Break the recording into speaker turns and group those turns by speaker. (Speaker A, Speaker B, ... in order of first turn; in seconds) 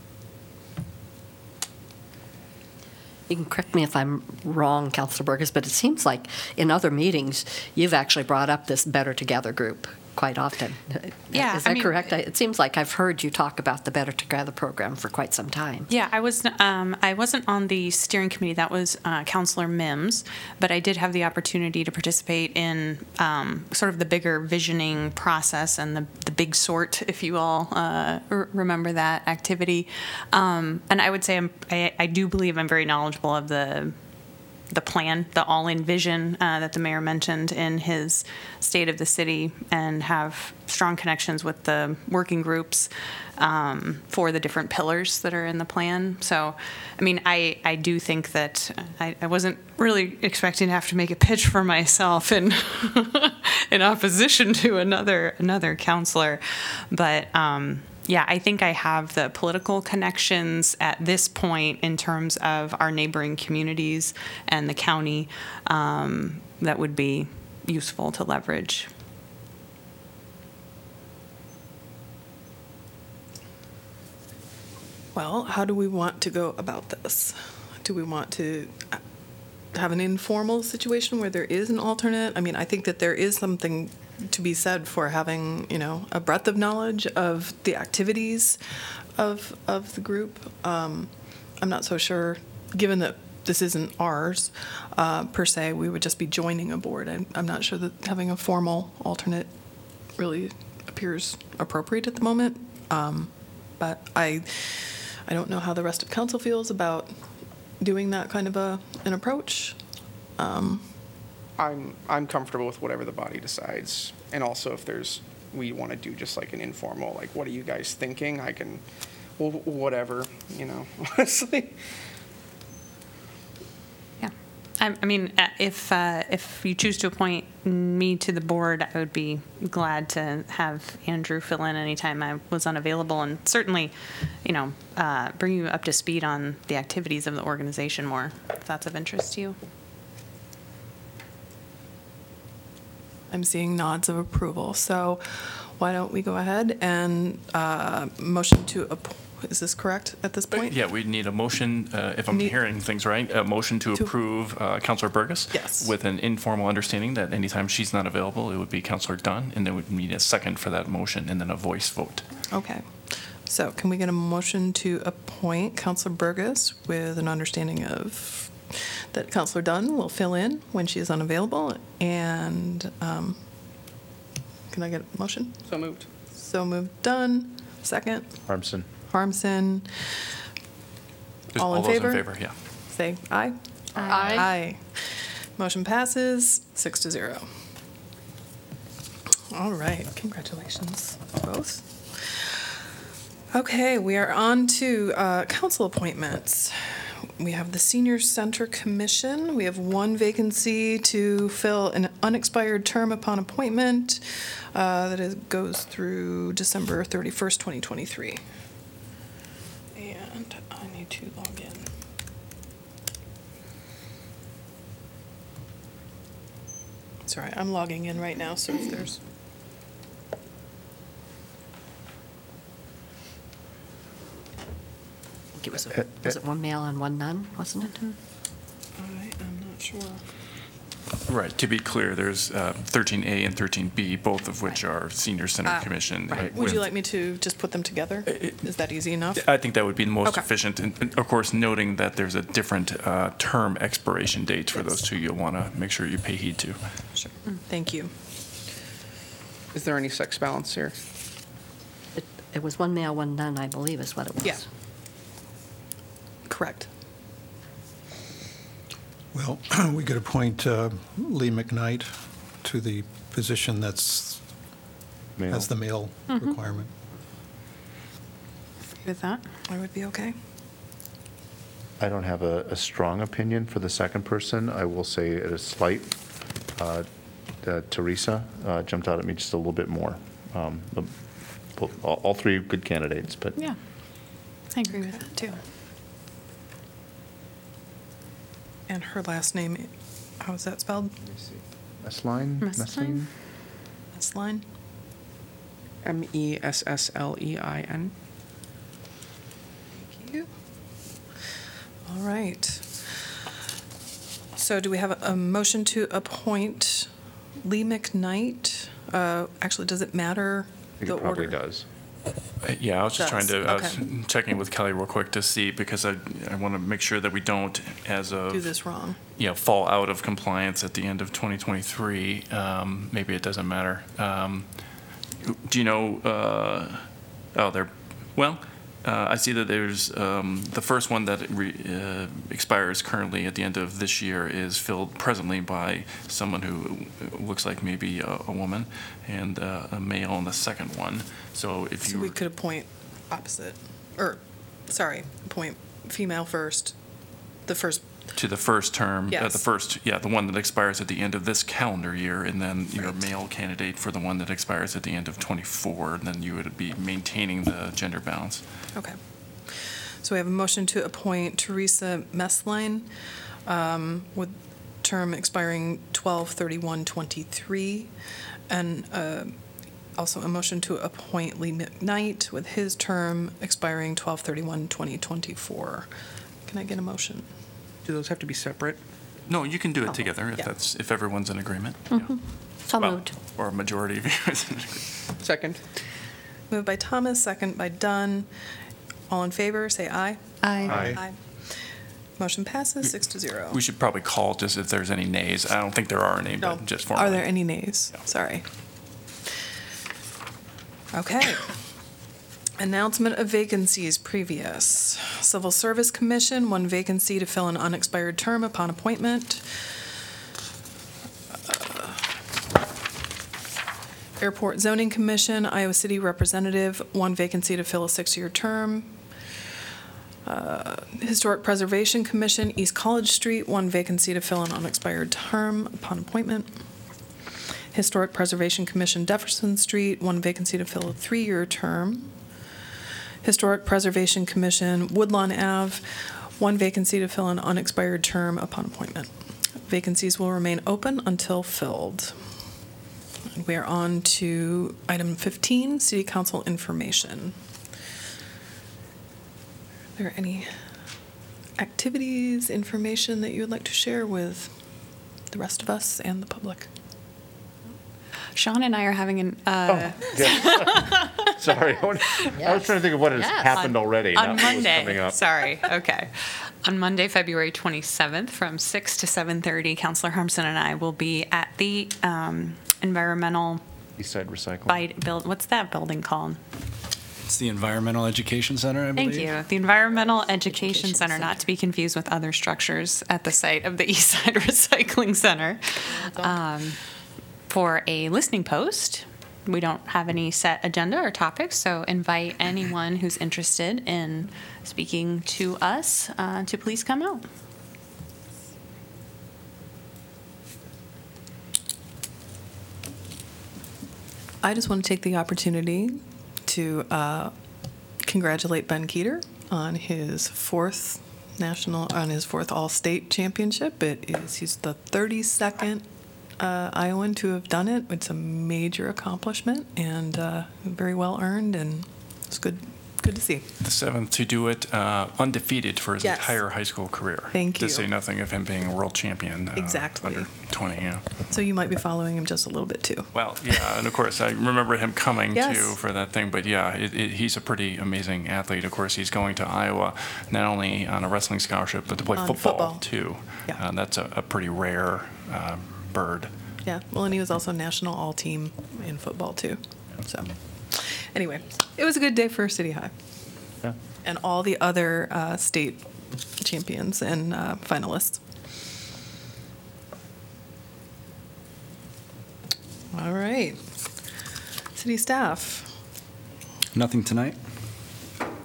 Speaker A: 3.3-15.9, 184.1-184.5, 225.6-228.0, 252.1-254.7, 382.9-383.2, 481.0-481.5
Speaker B: 11.3-12.1, 15.9-34.0, 34.7-68.9, 124.2-139.6, 184.0-184.4, 266.3-266.6, 269.0-269.4, 284.7-285.6, 292.6-293.2, 390.6-391.0, 458.6-461.4, 462.4-462.8, 463.5-473.8, 474.9-476.6, 479.2-487.0, 487.7-497.4
Speaker C: 75.1-79.0, 79.7-88.6, 89.2-99.5, 100.2-107.1, 107.8-109.8, 110.4-110.9, 143.3-150.8, 155.5-155.9, 162.5-173.4, 174.7-175.7, 176.3-178.4, 179.1-180.3, 181.6-182.3, 182.9-187.5, 189.5-192.6, 193.5-208.4, 209.9-211.9, 217.3-219.2, 229.0-230.2, 235.7-239.4, 247.2-248.1, 256.5-256.9, 269.7-270.4, 284.9-285.2, 288.9-291.1, 294.1-294.6, 300.0-300.5, 302.1-303.2, 304.6-307.1, 307.6-311.6, 313.2-314.0, 318.5-319.2, 342.0-347.0, 347.7-348.1, 349.3-349.6, 359.7-363.1, 363.7-368.1, 368.7-369.5, 370.2-376.1, 376.7-377.5, 386.7-388.5, 389.3-391.8, 392.4-393.8, 396.6-398.6, 401.1-401.8, 402.8-409.9, 411.6-412.3, 414.4-419.2, 420.4-426.8, 427.9-432.3, 433.4-439.3, 439.9-442.4, 443.5-447.6, 450.2-450.8, 451.8-454.7, 455.5-456.9, 486.1-486.6, 504.6-507.5, 508.2-516.0, 516.6-523.7, 526.2-526.6, 527.5-528.1, 529.8-530.5, 531.5-533.3, 535.5-536.0, 542.3-543.0, 546.8-553.1, 554.2-558.4, 563.1-563.8, 565.0-565.9
Speaker D: 111.6-118.8, 119.4-121.8, 175.7-176.1, 249.7-250.9, 296.0-298.1, 385.4-385.8
Speaker E: 150.5-162.3, 181.5-182.6, 231.3-236.8, 238.3-238.6, 239.3-246.8, 312.6-318.7, 319.4-324.7, 325.4-342.4, 348.4-358.6, 378.1-379.0, 379.5-382.3, 382.9-385.1, 393.7-397.5, 523.8-531.2, 533.3-546.5
Speaker F: 178.5-178.9, 265.4-265.7, 272.0-283.6, 291.2-293.3, 311.0-311.9, 390.9-391.2, 459.9-465.4, 474.2-475.1
Speaker G: 259.3-264.5, 265.5-266.9
Speaker H: 477.5-479.6, 566.9-567.6